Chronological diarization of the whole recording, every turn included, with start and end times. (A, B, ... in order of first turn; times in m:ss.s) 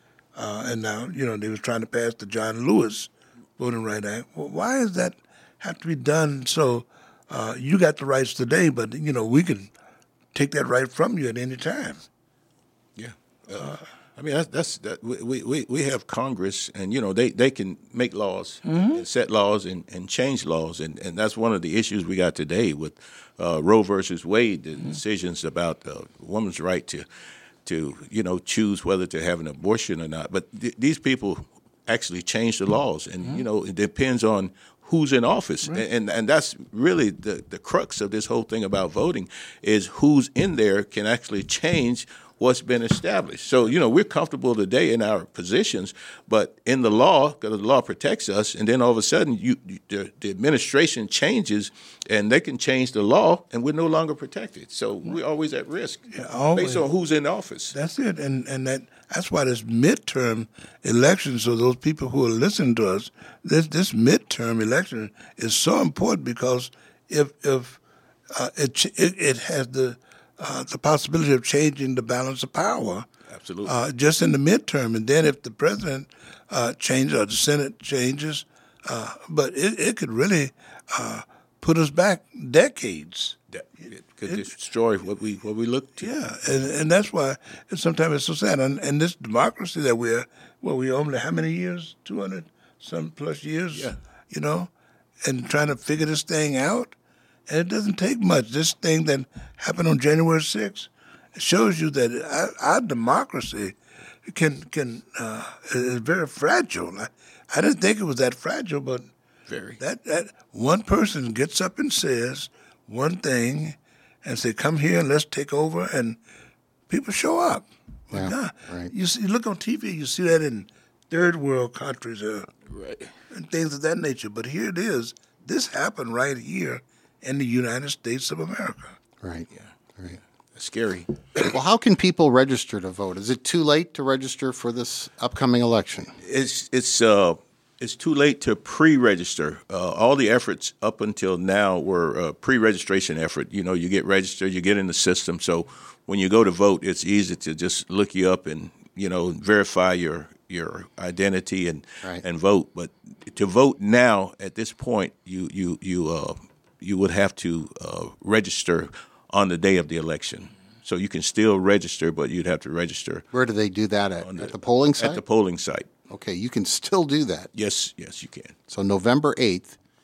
0:00.4-0:09.7 A
0:10.3-0:12.1 A
0:13.0-0:27.1 B
0:18.7-0:19.0 A
0:27.6-0:57.8 B
0:56.1-0:56.8 A
0:57.7-1:07.8 A
1:08.3-1:13.1 A
1:13.3-1:13.8 B
1:13.6-1:23.4 A
1:23.5-1:26.1 B
1:26.0-1:34.7 A
1:35.2-1:37.0 A
1:37.5-1:43.8 A
1:44.3-1:49.1 A
1:49.5-1:49.8 B
1:49.8-1:56.2 A
1:56.9-2:02.5 A
1:58.1-1:58.9 C
2:02.7-2:03.1 B
2:03.3-2:09.0 A
2:09.2-2:10.2 C
2:10.6-2:11.1 B
2:11.4-2:16.2 C
2:16.2-2:43.3 B
2:43.3-2:45.2 C
2:44.2-2:45.9 B
2:46.1-2:47.5 C
2:47.5-2:48.6 B
2:48.7-2:49.8 C